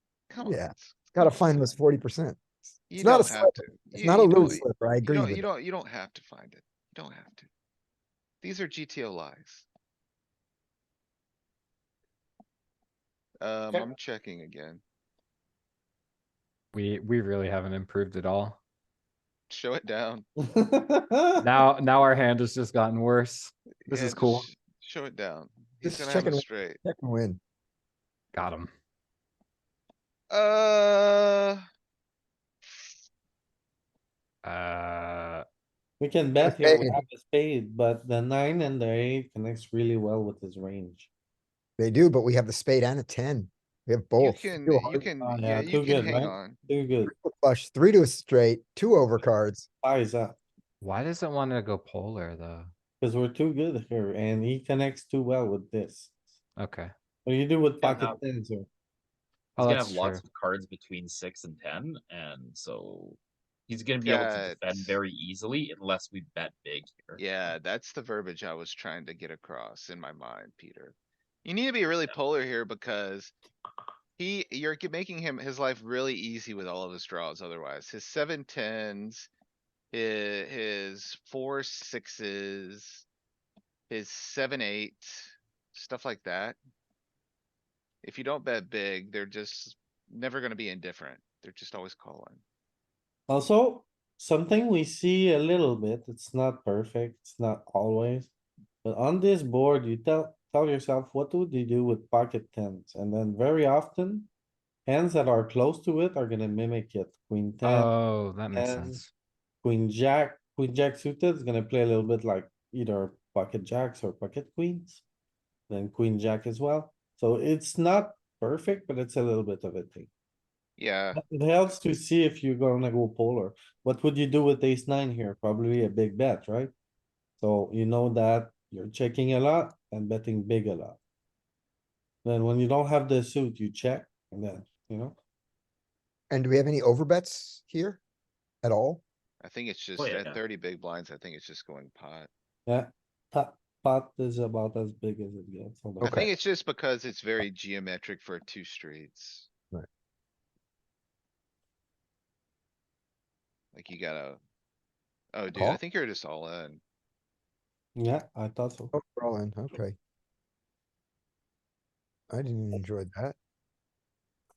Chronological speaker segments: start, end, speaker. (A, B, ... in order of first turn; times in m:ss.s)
0:00.3-0:01.7 A
0:00.4-0:05.4 B
0:02.9-0:07.5 A
0:08.4-0:09.6 A
0:13.4-0:14.8 A
0:16.7-0:18.6 C
0:19.5-0:20.3 A
0:20.4-0:21.5 D
0:21.4-0:24.5 C
0:23.9-0:26.8 A
0:25.8-0:27.4 B
0:28.3-0:28.7 C
0:30.3-0:31.6 A
0:34.4-0:35.4 C
0:36.0-0:41.1 D
0:36.4-0:37.0 B
0:41.8-0:45.1 B
0:44.2-0:46.6 A
0:45.2-0:47.1 D
0:47.0-0:49.7 B
0:49.8-0:50.4 D
0:50.8-0:52.7 C
0:53.0-0:56.4 D
0:56.6-0:56.9 C
0:57.2-0:58.7 D
0:57.8-0:58.2 E
0:59.6-1:00.2 C
0:59.6-1:07.3 E
1:04.0-1:05.0 A
1:07.2-1:13.3 A
1:14.2-1:19.3 A
1:19.9-1:23.0 A
1:23.9-1:26.6 A
1:28.0-1:32.4 A
1:33.3-1:38.3 D
1:38.8-1:44.3 D
1:44.8-1:47.9 D
1:47.6-1:49.1 C
1:48.5-1:49.0 D
1:49.6-1:55.0 D
1:55.7-2:00.1 D
2:00.8-2:01.2 A
2:01.1-2:06.7 D
2:07.4-2:11.0 D
2:12.2-2:15.2 D
2:16.3-2:18.0 B
2:18.6-2:19.0 B
2:19.4-2:22.3 A
2:20.0-2:20.4 E
2:22.6-2:26.2 D
2:26.0-2:26.3 B
2:26.0-2:29.5 A
2:33.7-2:34.4 A
2:35.3-2:36.8 A
2:35.5-2:35.8 B
2:38.0-2:38.9 D
2:38.9-2:40.0 B
2:42.3-2:43.3 B